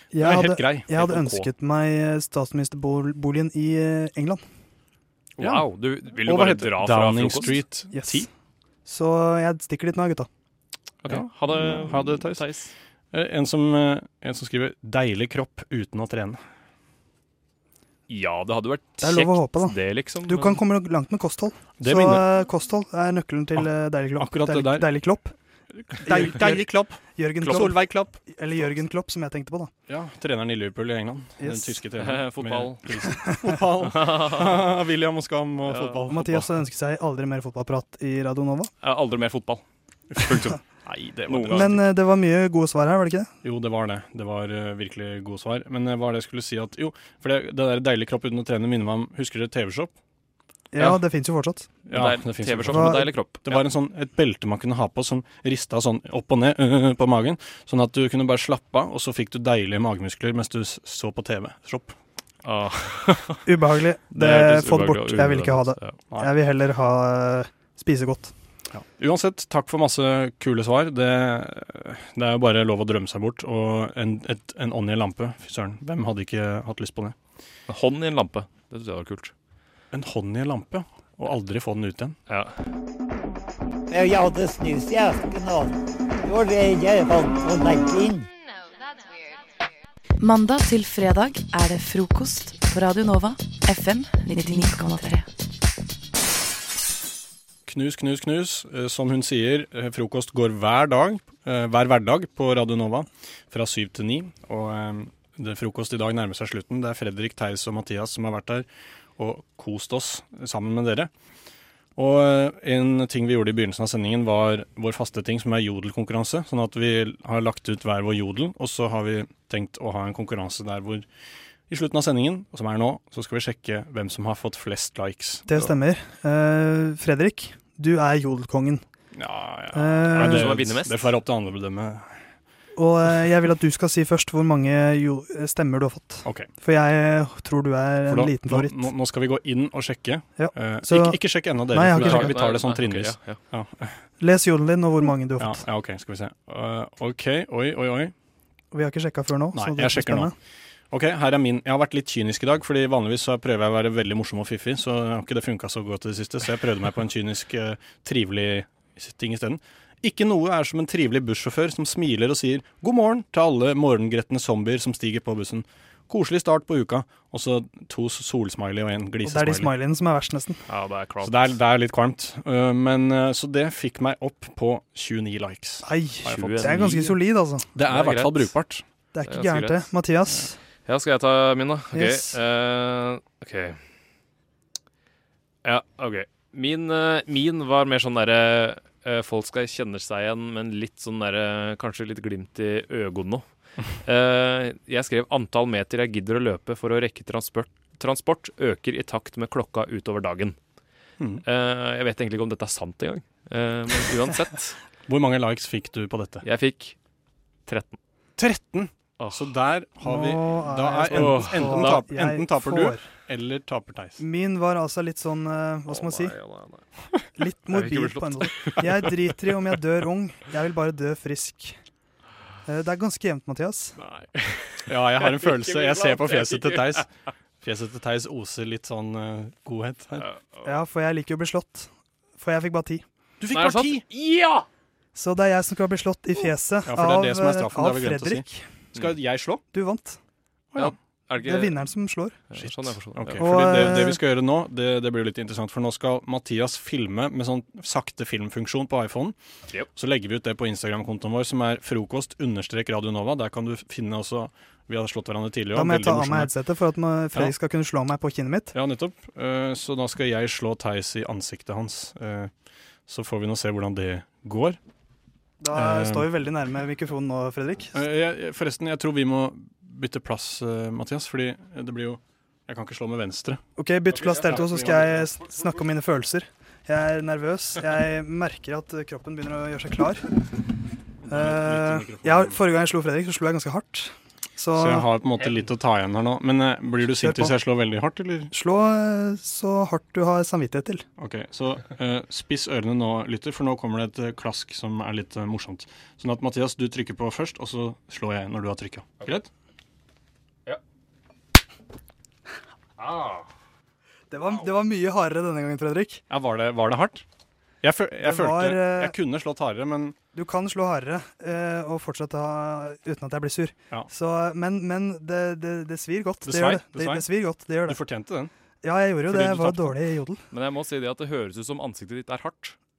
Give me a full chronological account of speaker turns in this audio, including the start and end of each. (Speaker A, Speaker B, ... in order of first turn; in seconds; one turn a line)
Speaker A: 0.1-4.4
Speaker B: 0.2-0.9
Speaker C: 1.0-1.4
Speaker C: 5.4-7.6
Speaker B: 5.4-5.7
Speaker B: 6.2-8.3
Speaker A: 7.9-8.3
Speaker A: 8.9-10.3
Speaker C: 11.0-12.7
Speaker B: 11.1-12.5
Speaker B: 13.1-16.4
Speaker C: 18.1-20.6
Speaker A: 19.0-25.3
Speaker B: 21.8-22.2
Speaker B: 24.2-24.9
Speaker B: 25.8-28.2
Speaker A: 26.0-29.7
Speaker B: 29.9-36.5
Speaker A: 31.4-31.8
Speaker C: 32.0-32.9
Speaker C: 33.8-34.6
Speaker C: 35.7-36.0
Speaker A: 36.1-38.7
Speaker C: 38.8-39.6
Speaker B: 40.1-41.8
Speaker C: 40.2-40.6
Speaker C: 41.3-41.8
Speaker A: 41.5-43.3
Speaker B: 43.4-50.0
Speaker A: 50.7-51.7
Speaker C: 51.9-53.6
Speaker B: 51.9-62.0
Speaker A: 52.6-53.1
Speaker C: 62.4-63.5
Speaker A: 63.5-68.3
Speaker C: 64.1-66.0
Speaker B: 68.7-77.2
Speaker C: 77.7-79.3
Speaker B: 79.9-82.2
Speaker C: 82.3-82.5
Speaker D: 83.9-88.3
Speaker E: 90.2-95.2
Speaker B: 97.7-111.1
Speaker B: 112.0-121.1
Speaker B: 121.7-125.7
Speaker A: 125.5-128.8
Speaker B: 129.2-132.2
Speaker A: 129.7-130.6
Speaker C: 130.1-131.1
Speaker A: 132.8-138.8
Speaker B: 138.1-144.0
Speaker A: 140.4-142.4
Speaker C: 141.9-143.4
Speaker A: 144.2-145.6
Speaker B: 145.4-148.1
Speaker A: 148.7-150.3
Speaker B: 149.5-150.3
Speaker B: 150.9-169.7
Speaker A: 169.2-170.6
Speaker C: 170.7-171.6
Speaker B: 171.2-175.9
Speaker A: 175.8-177.7
Speaker C: 176.2-177.2
Speaker B: 177.8-178.8
Speaker C: 177.8-178.5
Speaker A: 179.1-180.6
Speaker C: 179.3-179.9
Speaker C: 180.9-183.8
Speaker A: 181.9-182.3
Speaker C: 185.6-193.4
Speaker C: 194.0-200.6
Speaker C: 201.4-204.8
Speaker B: 205.1-206.4
Speaker C: 206.4-207.0
Speaker C: 207.7-208.0
Speaker B: 208.4-214.2
Speaker C: 209.2-209.5
Speaker A: 210.0-213.1
Speaker C: 211.1-212.0
Speaker A: 214.2-216.4
Speaker C: 215.9-216.8
Speaker A: 217.4-221.8
Speaker C: 217.7-219.1
Speaker A: 222.7-224.0
Speaker C: 224.0-227.0
Speaker B: 224.9-230.3
Speaker C: 230.2-230.7
Speaker A: 230.6-233.0
Speaker B: 233.4-234.1
Speaker C: 233.5-234.7
Speaker A: 235.2-238.7
Speaker B: 236.9-239.6
Speaker A: 239.7-240.2
Speaker C: 240.8-241.8
Speaker A: 241.4-242.4
Speaker C: 242.5-243.8
Speaker B: 242.6-249.4
Speaker A: 243.4-244.2
Speaker B: 249.9-256.5
Speaker A: 255.7-258.8
Speaker B: 258.7-262.5
Speaker B: 263.1-264.8
Speaker A: 265.6-268.0
Speaker B: 265.7-266.3
Speaker B: 267.9-273.6
Speaker A: 273.8-280.2
Speaker B: 274.4-275.2
Speaker B: 281.3-282.6
Speaker A: 281.3-285.1
Speaker B: 284.8-288.5
Speaker A: 287.1-287.6
Speaker A: 288.5-291.0
Speaker B: 291.2-299.5
Speaker C: 303.0-303.4
Speaker A: 304.3-306.2
Speaker B: 306.3-307.2
Speaker B: 307.8-310.2
Speaker A: 308.2-309.1
Speaker A: 310.3-318.0
Speaker B: 316.4-317.3
Speaker B: 317.9-318.5
Speaker A: 318.8-320.4
Speaker B: 319.3-320.0
Speaker C: 320.5-322.8